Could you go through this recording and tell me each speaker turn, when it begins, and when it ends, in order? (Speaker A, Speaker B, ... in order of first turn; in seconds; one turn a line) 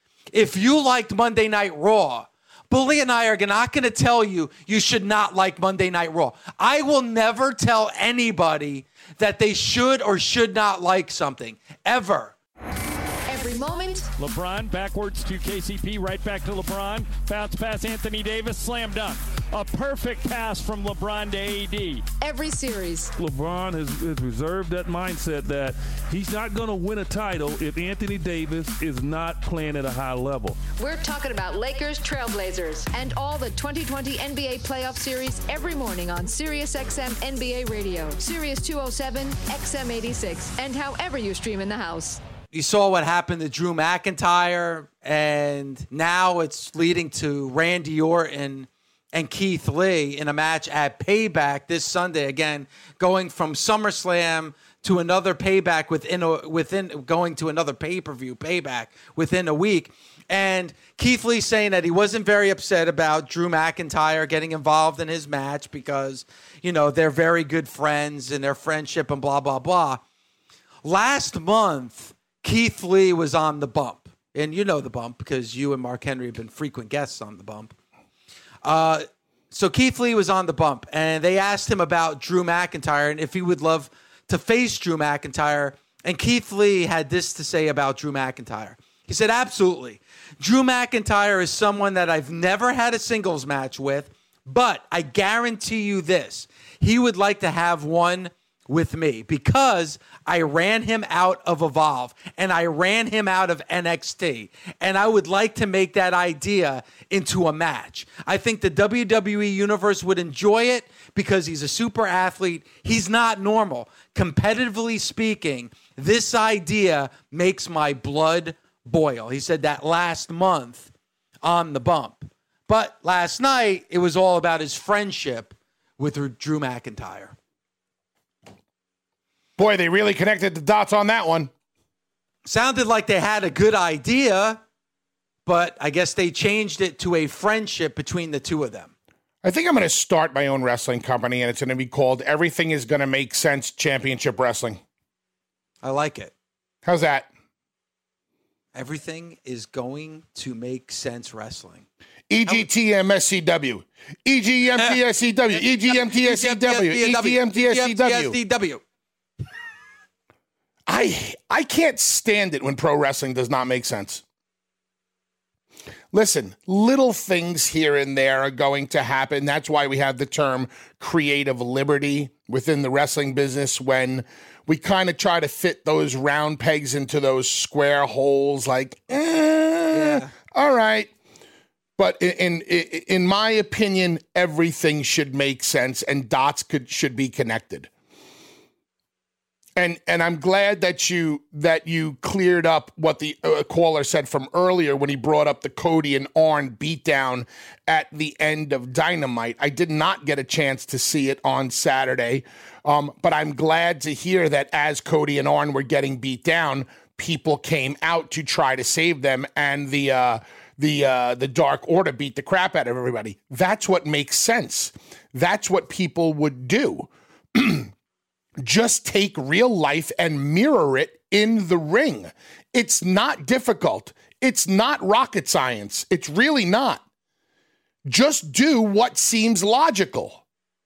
Speaker A: 0.3-12.3
Speaker B: 13.3-14.1
Speaker C: 14.2-22.0
Speaker B: 22.2-23.1
Speaker D: 23.2-30.6
Speaker B: 30.7-42.2
Speaker A: 42.5-70.0
Speaker A: 70.8-77.7
Speaker A: 78.6-120.9
Speaker A: 121.4-127.3
Speaker E: 129.6-131.5
Speaker A: 132.4-134.6
Speaker A: 135.4-138.9
Speaker E: 139.4-144.8
Speaker A: 145.8-146.3
Speaker E: 146.8-147.3
Speaker A: 148.7-151.8
Speaker E: 152.3-158.4
Speaker A: 155.5-158.8
Speaker E: 160.9-164.2
Speaker E: 166.1-181.1
Speaker A: 179.9-180.3
Speaker E: 182.0-187.9
Speaker E: 189.8-217.9
Speaker E: 218.6-227.0
Speaker E: 228.1-230.4